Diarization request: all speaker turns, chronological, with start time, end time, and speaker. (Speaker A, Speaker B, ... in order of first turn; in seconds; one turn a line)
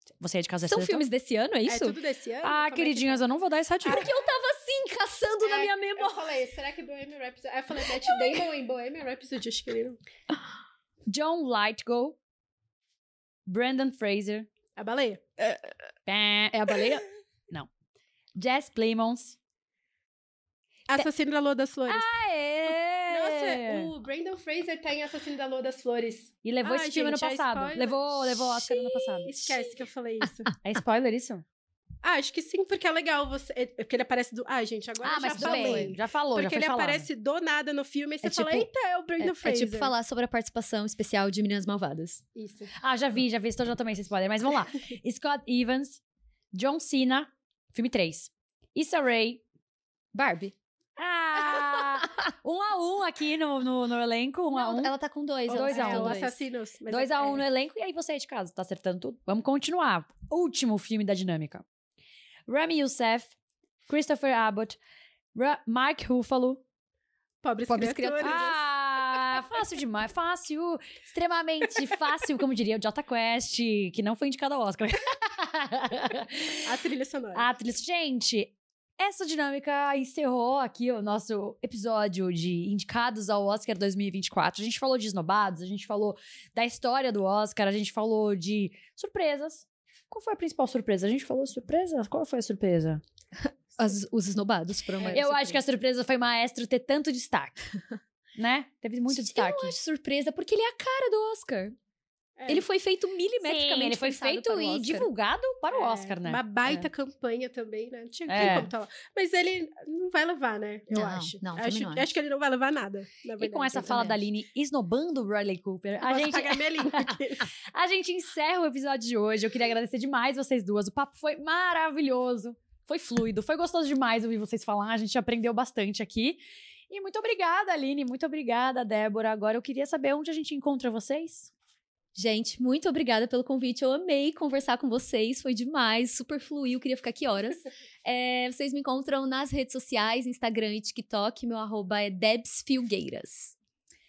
Speaker A: 0.2-1.0
Speaker B: 0.6-2.0
Speaker C: 1.7-3.2
Speaker A: 2.4-4.1
Speaker B: 3.8-6.2
Speaker C: 5.4-10.0
Speaker A: 11.1-12.2
Speaker A: 13.5-14.5
Speaker C: 14.8-15.2
Speaker A: 16.1-17.7
Speaker A: 18.4-19.4
Speaker C: 20.9-22.1
Speaker A: 21.9-23.9
Speaker C: 23.1-28.2
Speaker A: 26.4-29.6
Speaker B: 28.6-29.6
Speaker C: 29.3-30.5
Speaker A: 30.6-31.4
Speaker C: 32.0-39.9
Speaker A: 35.0-37.1
Speaker B: 35.3-36.0
Speaker B: 38.2-38.7
Speaker B: 39.2-42.2
Speaker C: 42.4-42.7
Speaker A: 42.8-46.0
Speaker A: 46.5-49.4
Speaker B: 50.1-50.5
Speaker A: 51.0-54.9
Speaker B: 51.5-51.8
Speaker B: 54.5-56.4
Speaker A: 55.5-56.2
Speaker C: 55.6-57.4
Speaker A: 56.9-61.6
Speaker A: 62.5-63.3
Speaker A: 63.9-64.8
Speaker A: 65.3-66.6
Speaker C: 67.4-68.6
Speaker B: 67.7-68.5
Speaker A: 68.2-76.7
Speaker C: 76.7-77.5
Speaker A: 77.3-93.0
Speaker B: 93.4-95.6
Speaker A: 95.0-97.7
Speaker A: 98.4-99.8
Speaker B: 99.1-101.8
Speaker C: 102.4-102.6
Speaker B: 102.5-105.1
Speaker A: 103.4-106.4
Speaker C: 105.7-114.0
Speaker A: 108.3-108.7
Speaker B: 110.9-112.1
Speaker A: 113.4-131.5
Speaker B: 113.8-114.2
Speaker C: 116.0-117.5
Speaker B: 132.2-143.6